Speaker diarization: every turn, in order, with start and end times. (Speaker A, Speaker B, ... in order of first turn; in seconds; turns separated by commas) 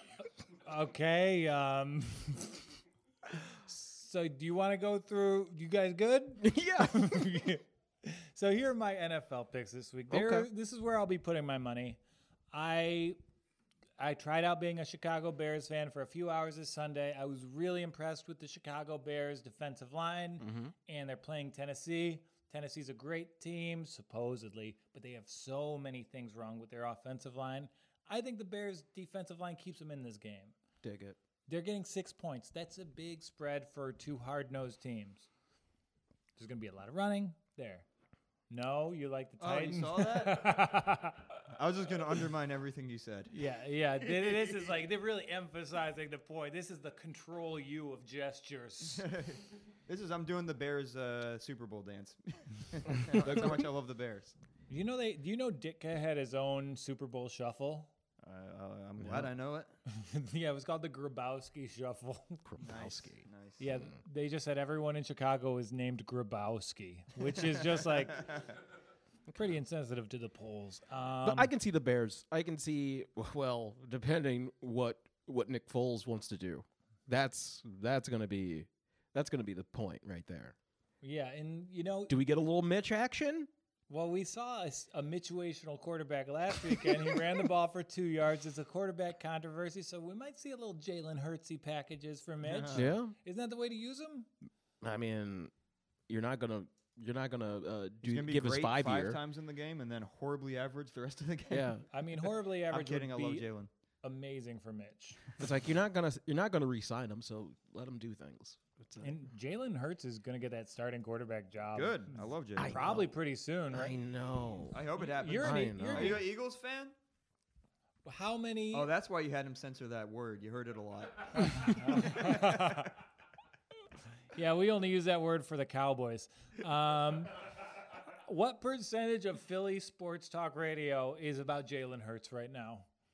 Speaker A: 0.5-2.6, Speaker A: 3.5-12.0, Speaker B: 6.4-7.2, Speaker B: 10.1-10.5, Speaker A: 12.5-13.2, Speaker A: 14.0-30.5, Speaker B: 20.4-20.7, Speaker B: 30.8-31.2, Speaker A: 31.5-35.3, Speaker A: 36.4-37.9, Speaker A: 38.5-41.3, Speaker C: 39.4-40.8, Speaker C: 41.5-43.3, Speaker A: 43.3-49.1, Speaker C: 44.0-44.6, Speaker C: 48.8-54.3, Speaker A: 54.7-57.9, Speaker C: 58.2-59.7, Speaker B: 59.0-59.3, Speaker A: 59.9-62.4, Speaker B: 62.5-63.9, Speaker C: 62.6-63.6, Speaker A: 63.6-68.4, Speaker C: 68.0-68.5, Speaker A: 69.3-71.5, Speaker B: 71.2-80.5, Speaker A: 81.0-82.2, Speaker B: 82.1-83.5, Speaker A: 83.9-94.3, Speaker C: 92.4-92.9, Speaker B: 92.7-93.1, Speaker B: 94.8-95.5, Speaker B: 96.1-99.2, Speaker C: 98.0-101.8, Speaker B: 101.5-101.8, Speaker A: 101.9-103.5, Speaker C: 102.7-103.7, Speaker A: 104.0-105.2, Speaker B: 105.4-109.2, Speaker A: 109.0-113.9, Speaker C: 111.7-113.0, Speaker B: 112.6-113.1, Speaker B: 113.7-116.2, Speaker C: 114.7-116.9, Speaker A: 115.0-116.2, Speaker A: 118.0-118.9, Speaker C: 118.7-122.9, Speaker A: 121.5-122.9, Speaker A: 124.3-127.5, Speaker A: 128.1-132.9